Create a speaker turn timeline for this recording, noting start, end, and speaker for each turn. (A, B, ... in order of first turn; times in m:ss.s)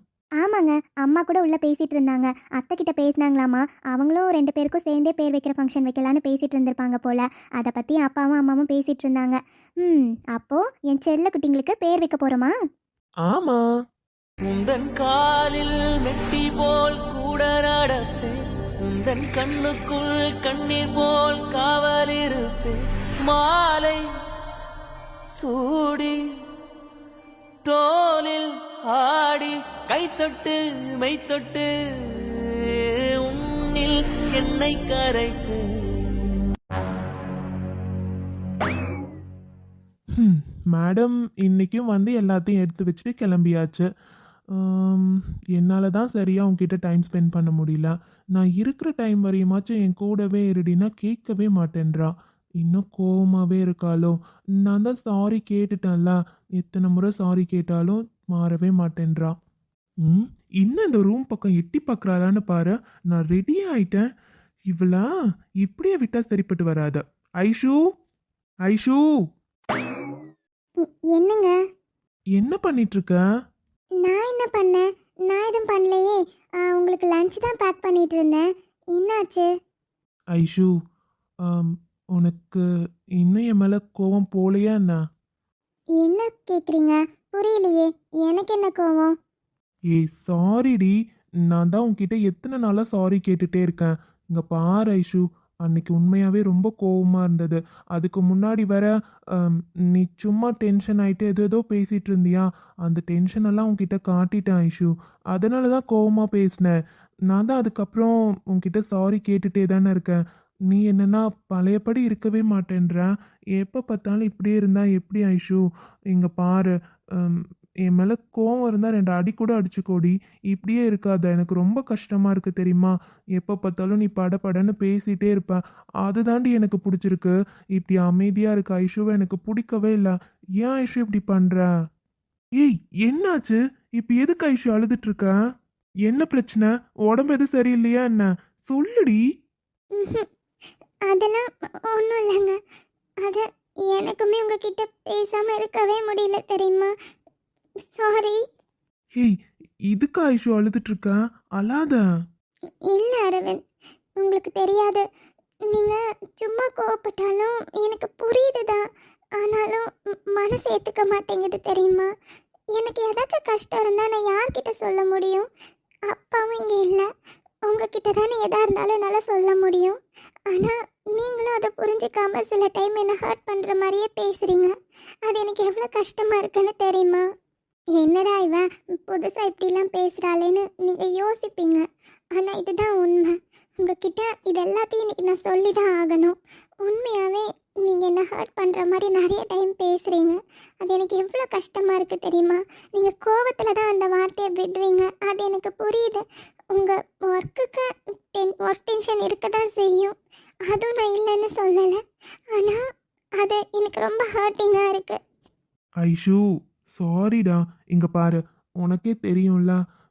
0:00.4-0:12.6 A
0:13.3-0:13.6 B
0:14.4-0:24.0 C
0:25.4-0:26.2 C
0:27.6-0:36.3 C
0:40.1-0:43.9 B
0:44.5-0:59.3 B
1:00.0-1:04.0 B
1:04.7-1:05.1 B
1:05.6-1:07.8 B
1:08.7-1:09.0 B
1:10.8-1:11.6 A
1:12.4-1:13.2 B
1:14.0-1:19.5 A
1:20.3-1:20.7 B
1:21.5-1:22.6 B
1:23.2-1:25.0 B
1:26.0-1:29.1 A
1:29.9-1:30.9 B
1:31.5-1:46.8 B
1:47.3-2:11.7 B
2:12.6-2:15.3 B
2:16.1-2:19.2 B
2:20.0-2:20.3 A
2:21.1-2:22.6 A
2:23.2-2:26.9 A
2:27.9-2:28.4 A
2:29.9-2:32.0 B
2:32.9-2:33.6 A
2:34.2-2:35.0 A
2:35.7-2:38.8 A
2:39.4-2:42.1 A
2:42.7-2:45.5 A
2:46.1-2:47.1 A
2:47.7-2:50.0 A
2:50.5-2:54.7 A
2:55.3-2:57.2 A
2:58.0-3:20.1 A
3:20.7-3:22.0 A
3:22.5-3:22.8 A
3:23.4-3:25.2 A
3:26.0-3:26.4 B
3:27.0-3:29.8 B